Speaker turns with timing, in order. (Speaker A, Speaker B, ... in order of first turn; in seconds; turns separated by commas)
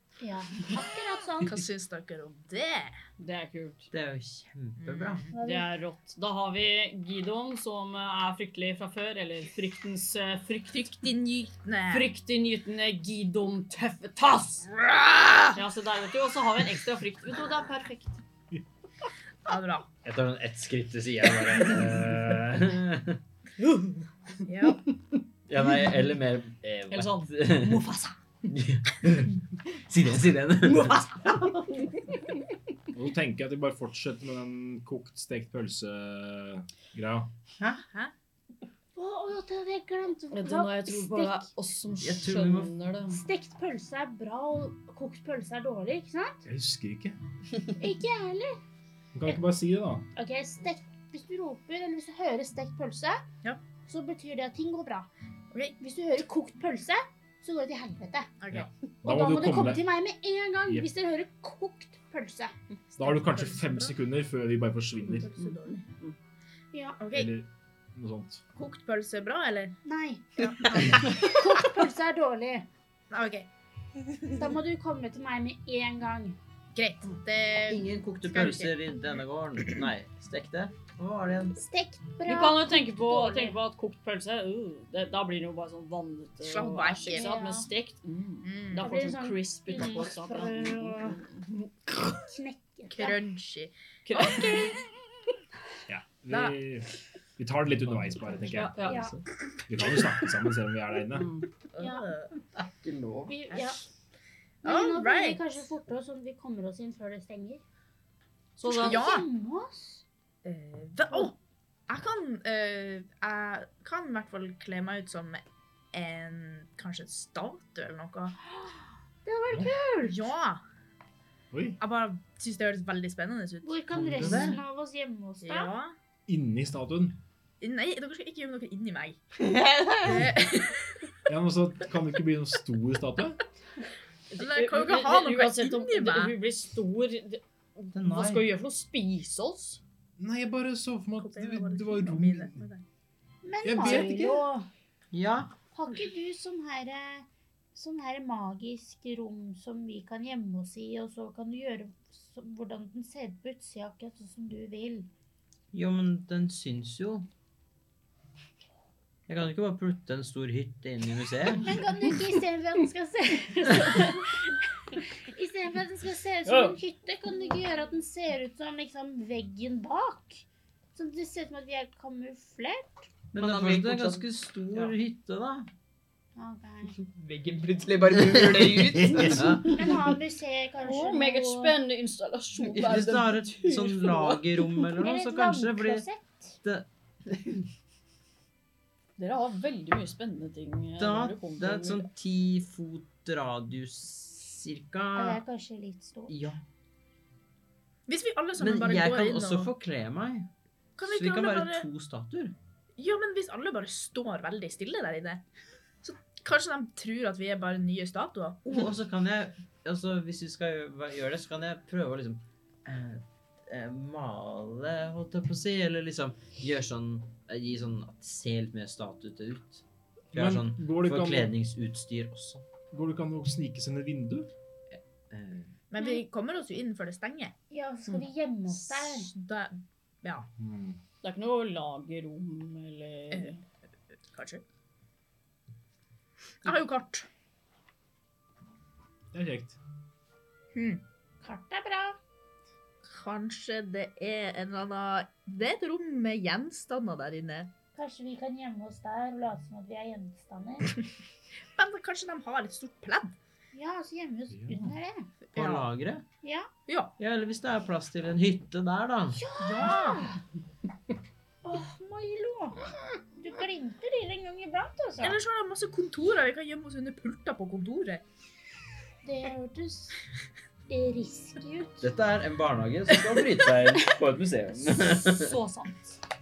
Speaker A: 0.2-1.6, Speaker B: 1.4-3.0, Speaker C: 3.2-3.9, Speaker D: 3.9-5.3, Speaker B: 4.8-5.3, Speaker A: 5.3-5.8, Speaker C: 5.4-11.0, Speaker B: 10.7-12.1, Speaker C: 11.9-14.7, Speaker B: 14.8-15.5, Speaker C: 15.5-18.2, Speaker B: 19.4-19.9, Speaker D: 20.0-23.2, Speaker B: 24.4-24.8, Speaker D: 25.5-27.9, Speaker C: 26.9-28.2, Speaker D: 28.5-31.1, Speaker C: 30.6-31.8, Speaker E: 32.9-37.3, Speaker D: 37.6-37.8, Speaker A: 39.0-41.5, Speaker C: 40.3-43.2, Speaker D: 42.0-42.7, Speaker A: 43.1-46.4, Speaker E: 46.5-47.1, Speaker A: 47.8-48.6, Speaker E: 49.1-50.0, Speaker A: 50.1-53.2, Speaker A: 53.9-55.1, Speaker A: 55.8-58.3, Speaker B: 58.4-58.7, Speaker E: 58.5-59.8, Speaker A: 59.0-62.5, Speaker B: 63.0-64.0, Speaker E: 63.0-65.3, Speaker B: 65.2-65.8, Speaker C: 65.4-66.1, Speaker A: 66.7-67.0, Speaker B: 67.0-67.3, Speaker E: 67.1-68.4, Speaker B: 68.5-69.8, Speaker A: 69.8-72.7, Speaker B: 70.4-71.4, Speaker B: 73.1-73.5, Speaker A: 74.3-76.4, Speaker B: 76.7-78.7, Speaker D: 77.7-81.6, Speaker A: 81.6-83.6, Speaker C: 82.2-92.2, Speaker B: 86.4-87.3, Speaker A: 87.1-87.7, Speaker B: 88.4-88.9, Speaker A: 88.8-91.2, Speaker A: 92.1-93.2, Speaker B: 92.9-94.7, Speaker C: 94.0-94.8, Speaker E: 95.9-101.4, Speaker B: 96.3-96.5, Speaker C: 98.5-99.1, Speaker A: 98.8-99.1, Speaker C: 101.1-101.5, Speaker B: 101.7-102.3, Speaker A: 101.8-102.1, Speaker D: 102.5-103.4, Speaker A: 103.3-103.8, Speaker B: 104.6-105.5, Speaker A: 104.6-107.6, Speaker C: 108.6-109.0, Speaker A: 108.6-110.0, Speaker B: 108.7-109.3, Speaker B: 110.4-111.3, Speaker B: 111.9-118.4, Speaker A: 119.2-120.3, Speaker B: 120.0-120.6, Speaker E: 121.5-121.8, Speaker B: 121.8-123.8, Speaker A: 123.6-125.7, Speaker D: 123.9-124.6, Speaker B: 125.4-126.0, Speaker E: 126.3-127.2, Speaker B: 127.6-129.2, Speaker F: 129.4-130.3, Speaker B: 130.0-130.9, Speaker E: 131.3-133.4, Speaker C: 134.3-139.8, Speaker B: 134.3-136.3, Speaker D: 137.9-138.5, Speaker E: 140.2-142.6, Speaker B: 141.2-142.8, Speaker A: 143.4-144.7, Speaker E: 143.6-144.1, Speaker D: 143.8-144.4, Speaker D: 145.1-145.5, Speaker A: 145.7-155.1, Speaker D: 155.7-157.3, Speaker D: 159.3-161.7, Speaker A: 161.6-173.1, Speaker D: 173.3-175.7, Speaker F: 173.3-174.9, Speaker A: 176.3-176.9, Speaker F: 176.9-179.6, Speaker D: 178.2-180.0, Speaker A: 179.7-181.7, Speaker C: 180.8-184.8, Speaker D: 182.7-186.1, Speaker A: 185.0-186.6, Speaker D: 186.6-186.9, Speaker C: 189.2-192.1, Speaker D: 191.0-195.4, Speaker A: 195.1-196.3, Speaker D: 196.3-196.6, Speaker B: 198.1-199.7, Speaker D: 198.6-200.5, Speaker B: 201.0-201.8, Speaker D: 201.0-202.6, Speaker B: 203.0-205.4, Speaker B: 206.0-208.7, Speaker D: 208.7-222.7, Speaker E: 220.3-221.5, Speaker E: 222.9-224.5, Speaker D: 224.9-225.8, Speaker B: 225.9-227.5, Speaker A: 227.7-229.3, Speaker B: 228.7-230.5, Speaker E: 230.6-231.0, Speaker C: 231.2-233.6, Speaker B: 233.3-233.6, Speaker B: 234.3-234.6, Speaker B: 236.6-237.3, Speaker E: 239.3-239.8, Speaker B: 240.7-241.0, Speaker A: 241.4-242.2, Speaker B: 243.0-247.7, Speaker A: 247.9-250.9, Speaker B: 251.7-253.4, Speaker A: 253.7-255.3, Speaker E: 254.5-254.9, Speaker B: 255.5-255.9, Speaker D: 255.5-256.2, Speaker A: 256.4-256.7, Speaker B: 256.9-257.1, Speaker D: 257.2-259.4, Speaker A: 259.3-260.4, Speaker B: 259.6-260.3, Speaker A: 261.6-265.4, Speaker B: 265.2-268.2, Speaker A: 269.2-270.2, Speaker A: 270.9-272.1, Speaker D: 272.0-275.6, Speaker C: 274.9-276.2